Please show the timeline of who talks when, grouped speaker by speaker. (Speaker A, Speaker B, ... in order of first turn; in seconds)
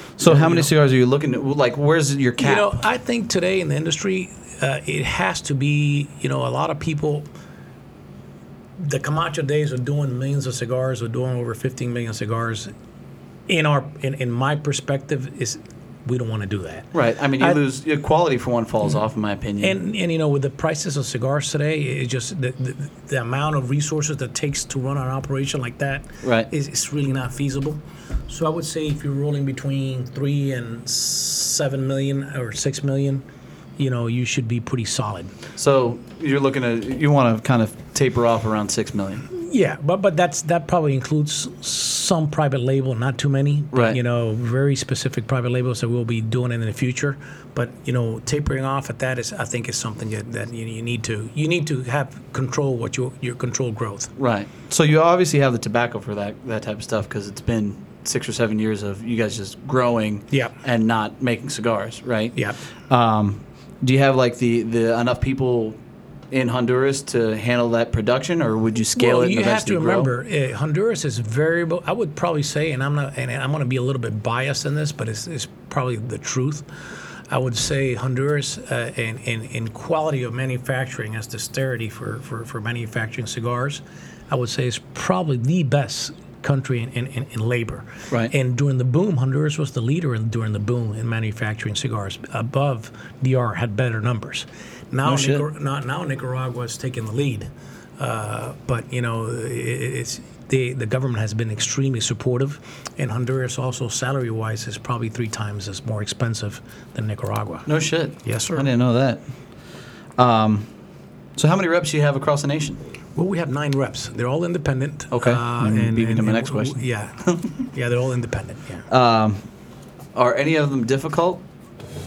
Speaker A: 0.2-2.8, 16.9-19.8, 26.2-26.5, 35.6-39.3, 43.7-44.0, 54.2-65.8, 66.3-70.1, 95.1-95.5, 107.7-109.2, 110.2-110.7, 111.4-112.8, 115.1-116.8, 118.9-119.4, 120.2-121.4
Speaker B: 0.2-0.7, 2.4-7.3, 8.8-12.7, 13.5-17.6, 19.6-33.2, 33.8-35.3, 39.3-54.1, 69.0-76.7, 77.3-107.7, 108.2-108.7, 113.2-118.8